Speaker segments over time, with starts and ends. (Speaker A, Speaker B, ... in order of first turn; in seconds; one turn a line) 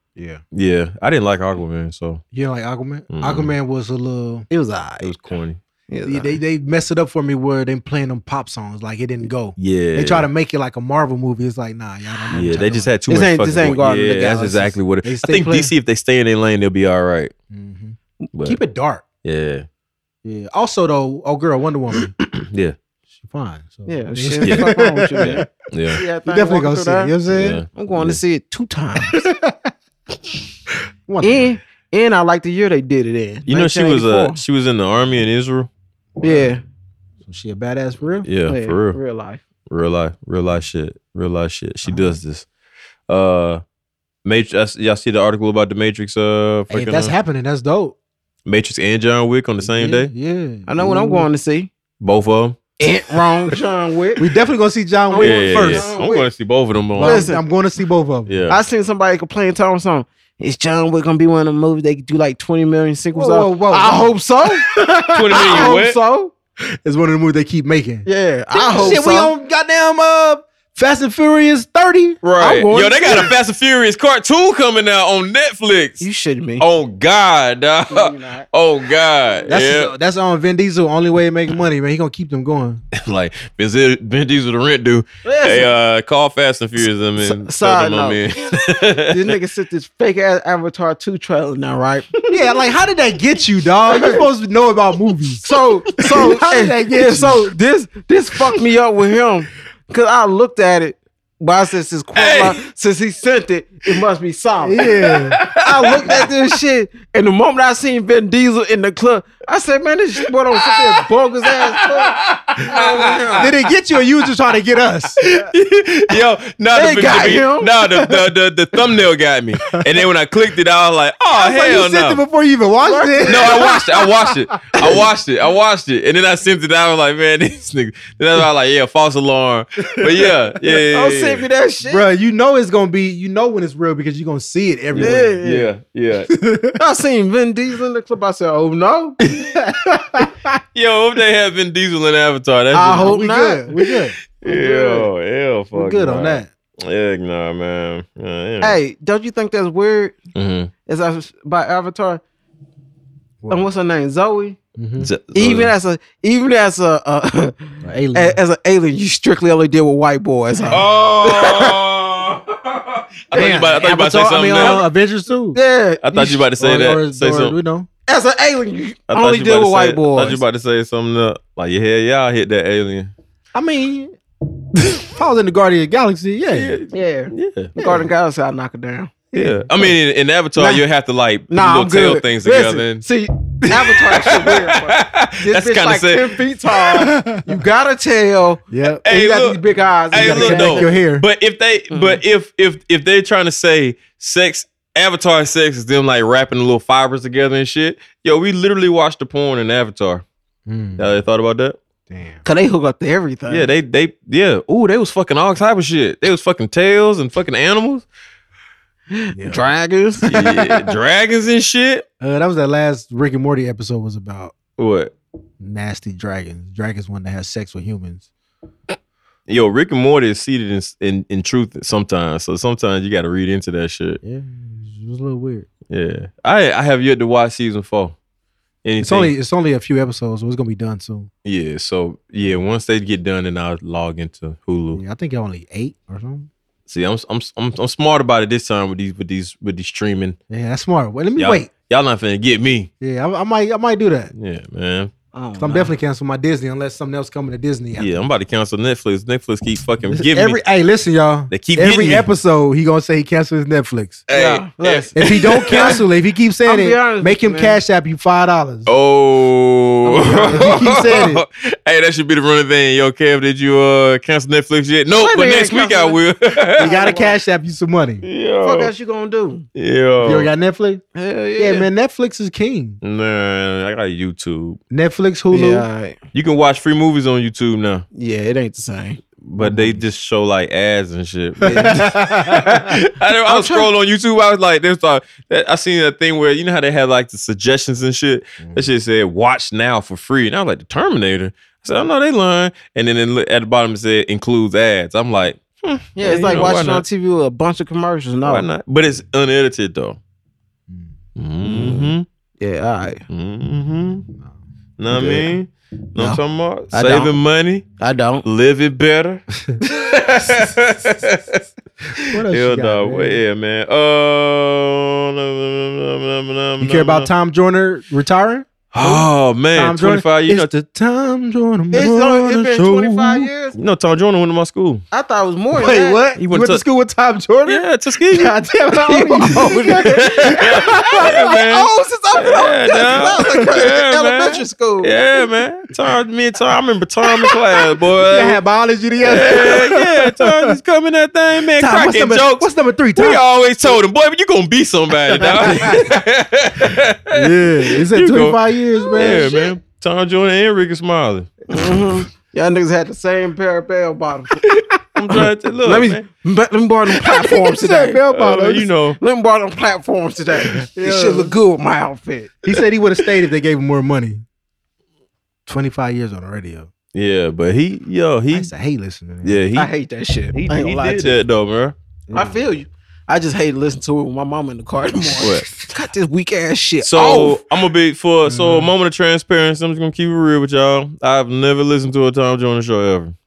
Speaker A: 0.1-0.4
Speaker B: 0.5-2.2
Speaker A: 2.3-4.5
Speaker B: 3.1-3.5
Speaker C: 4.5-5.1
Speaker B: 5.0-5.6
Speaker C: 5.9-6.4
Speaker A: 6.0-12.9
Speaker B: 9.6-10.3
Speaker B: 12.3-17.3
Speaker C: 13.1-14.7
Speaker A: 15.0-15.7
Speaker A: 17.5-19.1
Speaker B: 18.3-18.6
Speaker B: 19.2-19.7
Speaker A: 20.2-22.1
Speaker B: 22.3-22.8
Speaker A: 23.2-25.5
Speaker C: 23.9-27.1
Speaker B: 24.4-26.0
Speaker A: 26.2-27.6
Speaker B: 27.3-28.2
Speaker C: 27.7-29.2
Speaker A: 29.0-29.7
Speaker A: 31.1-31.6
Speaker C: 31.2-34.4
Speaker B: 33.5-35.7
Speaker A: 36.2-36.5
Speaker C: 36.2-36.6
Speaker A: 37.2-38.3
Speaker B: 38.2-39.0
Speaker C: 38.5-39.4
Speaker B: 39.7-42.5
Speaker A: 41.9-42.2
Speaker B: 43.1-43.6
Speaker B: 44.2-47.1
Speaker A: 46.7-48.0
Speaker B: 48.5-50.1
Speaker A: 49.6-51.3
Speaker C: 50.7-51.7
Speaker B: 52.0-52.6
Speaker C: 52.8-54.3
Speaker A: 54.2-56.2
Speaker C: 55.1-56.2
Speaker B: 55.2-57.3
Speaker A: 57.0-58.3
Speaker C: 57.0-57.4
Speaker B: 58.3-58.6
Speaker C: 58.5-64.7
Speaker A: 63.1-65.8
Speaker B: 65.1-66.0
Speaker C: 65.3-66.3
Speaker A: 66.8-72.2
Speaker C: 68.0-69.3
Speaker B: 72.2-76.1
Speaker C: 72.4-73.3
Speaker C: 76.0-76.6
Speaker B: 76.6-79.9
Speaker C: 77.9-78.5
Speaker A: 79.5-82.8
Speaker B: 82.9-89.3
Speaker C: 85.2-85.7
Speaker C: 87.2-88.4
Speaker C: 89.1-92.4
Speaker A: 92.3-97.5
Speaker C: 93.9-94.2
Speaker C: 95.4-113.5
Speaker B: 102.2-102.5
Speaker A: 104.6-105.5
Speaker B: 105.1-106.3
Speaker B: 110.6-111.0
Speaker B: 111.7-113.5
Speaker A: 113.4-115.2
Speaker B: 115.2-122.2
Speaker C: 116.8-117.8
Speaker A: 121.3-125.0
Speaker C: 122.8-123.7
Speaker B: 123.3-131.4
Speaker A: 130.0-130.3
Speaker C: 130.9-132.1
Speaker A: 131.8-135.4
Speaker B: 134.9-136.3
Speaker C: 135.0-135.7
Speaker A: 136.3-136.8
Speaker C: 136.8-139.2
Speaker A: 139.3-140.6
Speaker B: 140.7-143.1
Speaker C: 142.7-143.7
Speaker A: 142.8-144.2
Speaker B: 144.4-148.8
Speaker C: 144.4-145.1
Speaker A: 145.7-146.5
Speaker C: 148.6-150.2
Speaker B: 150.3-150.7
Speaker C: 150.9-152.2
Speaker C: 153.5-154.6
Speaker A: 154.8-155.1
Speaker B: 155.0-155.7
Speaker C: 155.3-161.7
Speaker A: 157.8-158.4
Speaker A: 160.6-160.8
Speaker B: 160.7-164.8
Speaker A: 163.3-165.6
Speaker C: 163.4-163.8
Speaker C: 164.6-164.8
Speaker C: 165.5-166.0
Speaker B: 166.0-167.6
Speaker A: 166.1-167.9
Speaker C: 168.1-170.4
Speaker B: 169.1-173.1
Speaker A: 173.5-174.2
Speaker A: 174.7-176.8
Speaker B: 176.5-177.8
Speaker C: 176.9-179.2
Speaker A: 179.3-179.9
Speaker B: 179.3-183.0
Speaker C: 180.6-180.8
Speaker C: 181.5-191.0
Speaker B: 183.6-186.4
Speaker A: 187.0-187.4
Speaker A: 188.7-189.1
Speaker B: 189.0-189.6
Speaker A: 190.1-191.3
Speaker B: 190.1-200.2
Speaker C: 191.9-192.2
Speaker A: 200.7-201.0
Speaker B: 201.0-201.8
Speaker A: 202.1-202.4
Speaker C: 202.4-203.7
Speaker B: 203.5-208.1
Speaker C: 209.1-210.4
Speaker A: 209.4-209.6
Speaker B: 210.2-212.1
Speaker A: 210.3-210.9
Speaker A: 212.2-214.6
Speaker B: 214.8-215.1
Speaker A: 215.6-218.3
Speaker B: 219.5-224.2
Speaker A: 224.2-225.7
Speaker B: 225.9-228.2
Speaker B: 228.8-229.3
Speaker A: 229.0-231.3
Speaker B: 231.4-235.0
Speaker A: 234.9-236.5
Speaker B: 236.9-240.4
Speaker A: 240.5-241.7
Speaker B: 241.4-242.9
Speaker A: 243.0-244.3
Speaker B: 244.3-245.1
Speaker C: 245.3-245.9
Speaker A: 245.6-248.2
Speaker B: 248.0-250.6
Speaker A: 250.0-254.3
Speaker B: 251.5-252.3
Speaker B: 254.3-256.0
Speaker C: 254.3-256.0
Speaker A: 255.2-258.9
Speaker C: 256.6-257.8
Speaker B: 258.9-267.1
Speaker C: 260.0-261.0
Speaker A: 260.4-261.4
Speaker C: 265.1-266.2
Speaker C: 266.8-267.4
Speaker A: 266.8-268.2
Speaker B: 268.2-268.9
Speaker C: 268.6-269.7
Speaker B: 269.8-270.5
Speaker A: 270.2-271.0
Speaker C: 271.2-271.9
Speaker A: 271.6-273.0
Speaker B: 273.0-274.8
Speaker A: 274.9-275.9
Speaker C: 275.5-276.2
Speaker B: 276.3-278.1
Speaker C: 278.1-279.2
Speaker B: 279.4-297.1
Speaker A: 279.6-280.0
Speaker C: 281.6-282.2
Speaker A: 281.7-282.9
Speaker C: 283.4-283.9
Speaker C: 296.1-298.7
Speaker B: 298.4-300.2
Speaker A: 300.9-301.2
Speaker B: 301.4-302.3
Speaker C: 301.6-303.2
Speaker B: 303.3-304.3
Speaker B: 305.0-307.9
Speaker C: 305.2-305.5
Speaker C: 306.9-307.4
Speaker C: 308.0-308.4
Speaker B: 308.4-311.6
Speaker B: 312.2-317.3
Speaker A: 312.2-313.4
Speaker A: 316.8-323.5
Speaker B: 318.9-320.7
Speaker C: 321.9-323.8
Speaker B: 323.7-325.0
Speaker C: 325.1-326.2
Speaker A: 325.7-331.4
Speaker B: 326.4-326.8
Speaker B: 327.7-328.6
Speaker C: 329.0-335.2
Speaker B: 330.1-338.6
Speaker A: 338.2-340.8
Speaker B: 339.2-351.7
Speaker A: 341.7-343.4
Speaker A: 345.3-346.1
Speaker A: 347.3-349.6
Speaker C: 349.2-349.6
Speaker C: 351.7-354.6
Speaker B: 354.6-356.2
Speaker C: 355.8-358.2
Speaker A: 357.5-358.9
Speaker B: 358.3-359.2
Speaker C: 359.2-362.5
Speaker A: 360.9-361.6
Speaker A: 362.6-364.4
Speaker A: 365.7-366.9
Speaker B: 367.1-368.7
Speaker A: 368.5-369.6
Speaker B: 369.4-369.9
Speaker C: 369.8-371.4
Speaker B: 370.5-372.0
Speaker A: 372.3-372.6
Speaker C: 372.3-377.6
Speaker B: 375.4-375.7
Speaker B: 377.0-383.4
Speaker A: 378.5-378.9